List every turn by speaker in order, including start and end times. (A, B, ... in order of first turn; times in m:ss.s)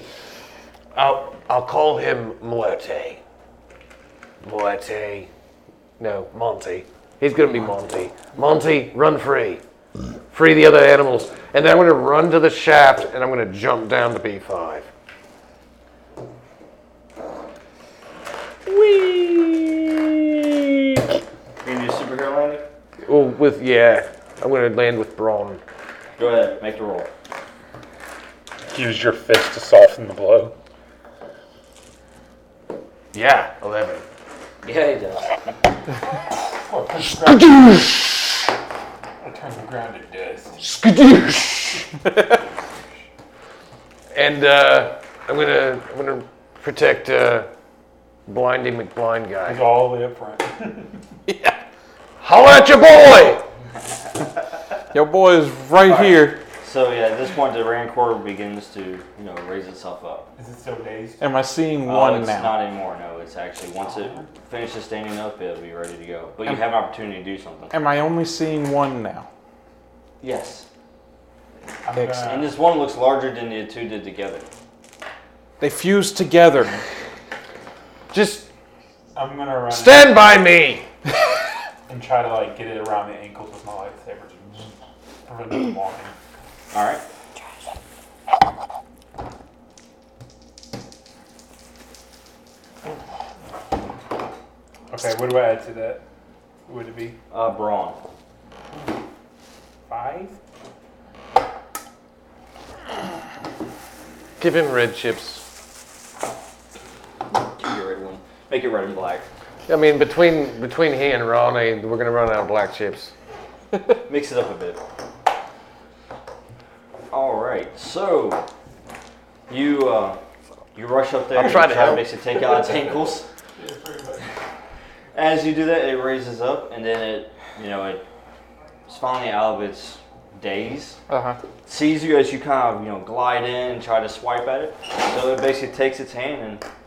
0:00.9-0:03.2 A
0:04.4-0:05.3 A
0:06.0-0:09.6 A
0:10.3-0:14.9 A
0:18.7-0:20.0 B
0:21.6-0:22.6 C
0:23.0-0:25.6 A
0:26.2-0:27.1 C
0:28.7-0:30.5 B
0:33.1-0:34.0 A
0:34.6-0:35.6 C
0:36.6-0:37.8 D
0:37.2-0:38.0 A
0:39.2-0:40.6 D
0:40.6-0:41.9 A
0:44.1-0:47.5 A
0:48.3-0:49.6 A
0:49.4-0:50.9 D
0:51.3-0:51.6 E
0:52.2-0:53.4 A
0:54.9-0:56.4 E
0:55.8-1:00.3 C
1:00.4-1:01.2 D
1:01.2-1:02.6 E
1:01.8-1:07.7 C
1:03.8-1:04.3 D
1:07.7-1:09.3 E
1:10.2-1:10.7 C
1:11.8-1:12.5 D
1:12.2-1:14.4 C
1:15.6-1:16.8 E
1:18.1-1:18.5 A
1:19.1-1:20.2 D
1:19.7-1:20.8 A
1:21.9-1:24.7 D
1:25.3-1:26.1 D
1:26.7-1:27.0 C
1:34.9-1:36.0 D
1:36.6-1:37.2 D
1:37.3-1:38.0 C
1:39.9-1:40.4 D
1:44.4-1:45.4 A
1:47.3-1:49.2 C
1:49.7-1:53.1 A
1:54.0-1:54.8 C
1:57.1-1:58.4 C
1:59.5-2:00.2 C
2:00.7-2:03.2 C
2:01.3-2:02.1 A
2:03.6-2:04.2 D
2:05.1-2:08.0 C
2:08.9-2:11.0 C
2:11.1-2:11.4 E
2:11.6-2:16.6 C